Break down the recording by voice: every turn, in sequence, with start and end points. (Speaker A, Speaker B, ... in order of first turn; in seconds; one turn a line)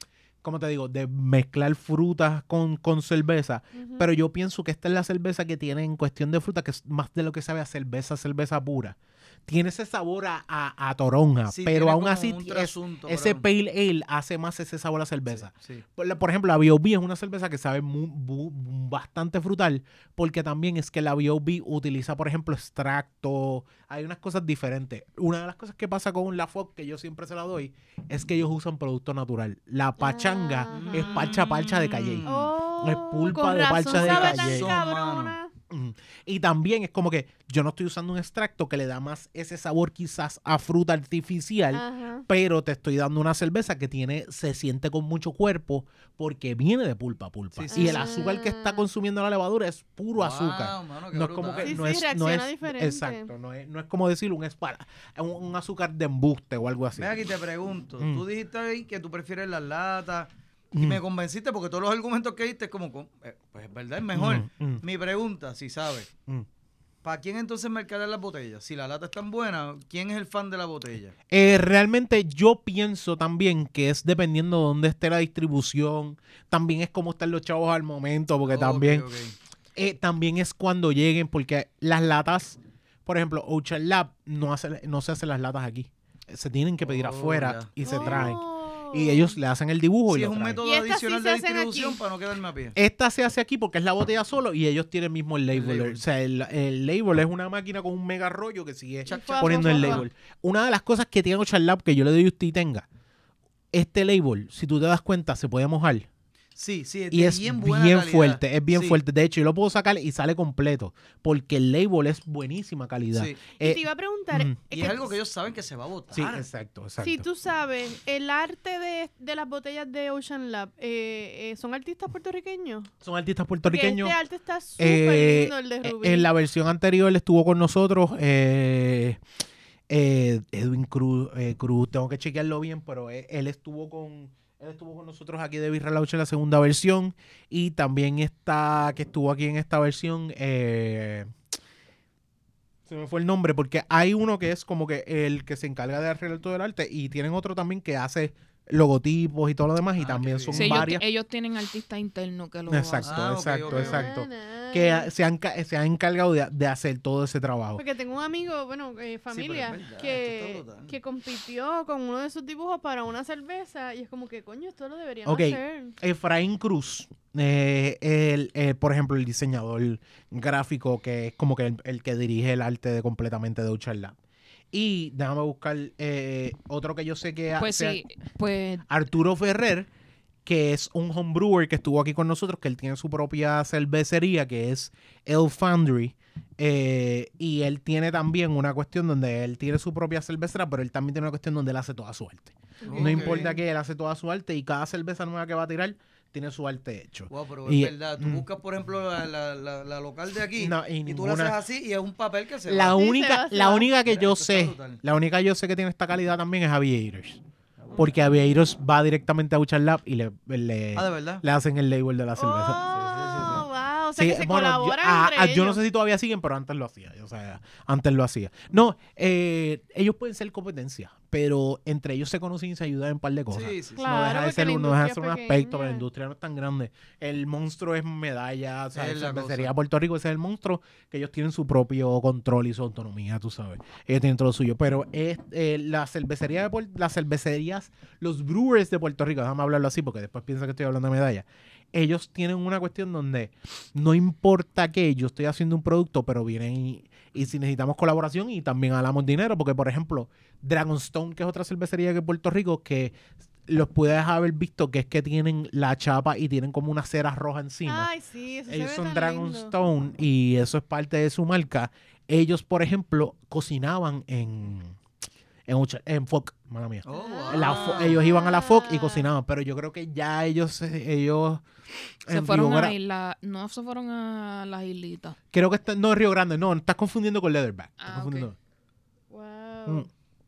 Speaker A: 0.4-32.3
Speaker B: 3.7-4.1
Speaker C: 11.5-13.4
Speaker C: 15.3-15.8
Speaker B: 30.0-31.3
Speaker C: 30.7-32.5
Speaker B: 32.3-35.5
Speaker A: 32.8-34.8
Speaker C: 33.9-35.4
Speaker A: 35.7-57.2
Speaker B: 41.7-42.3
Speaker C: 47.5-48.1
Speaker B: 47.7-48.8
Speaker C: 50.2-51.8
Speaker B: 51.6-53.3
Speaker C: 57.0-66.1
Speaker A: 60.8-61.0
Speaker A: 64.1-64.8
Speaker C: 67.0-71.1
Speaker A: 71.3-79.1
Speaker C: 78.5-79.3
Speaker A: 79.8-90.6
Speaker C: 86.8-88.3
Speaker B: 87.8-89.4
Speaker C: 90.1-92.8
Speaker B: 90.6-92.0
Speaker A: 92.8-102.9
Speaker C: 95.5-96.0
Speaker C: 99.1-100.1
Speaker B: 99.1-100.0
Speaker A: 103.7-106.1
Speaker C: 106.6-109.0
Speaker A: 107.1-114.6
Speaker C: 113.1-113.4
Speaker B: 113.6-115.1
Speaker C: 114.7-116.5
Speaker A: 116.1-117.3
Speaker B: 117.0-122.9
Speaker A: 123.0-124.2
Speaker B: 123.7-126.3
Speaker A: 124.8-129.2
Speaker A: 129.9-141.3
Speaker A: 142.9-151.0
Speaker C: 150.0-150.9
Speaker D: 150.5-153.1
Speaker A: 152.7-157.8
Speaker C: 153.0-154.1
Speaker B: 153.7-155.1
Speaker B: 157.8-165.9
Speaker C: 159.3-160.9
Speaker A: 165.3-174.2
Speaker A: 174.7-178.0
Speaker D: 177.6-178.8
Speaker A: 178.9-179.9
Speaker A: 180.5-198.4
Speaker B: 192.8-193.6
Speaker C: 192.8-193.5
Speaker C: 197.3-203.0
Speaker A: 200.6-201.6
Speaker A: 202.7-207.4
Speaker B: 203.0-203.9
Speaker C: 204.1-205.0
Speaker A: 208.0-258.1
Speaker C: 210.9-211.4
Speaker B: 212.4-215.8
Speaker C: 223.5-224.1
Speaker B: 224.0-226.1
Speaker C: 228.9-229.7
Speaker B: 257.9-259.7
Speaker A: 258.7-265.0
Speaker A: 265.7-271.6
Speaker C: 267.1-268.2
Speaker B: 267.1-269.3
Speaker A: 272.2-273.0
Speaker D: 272.3-275.4
Speaker A: 275.5-278.6
Speaker D: 278.0-278.5
Speaker B: 279.3-280.1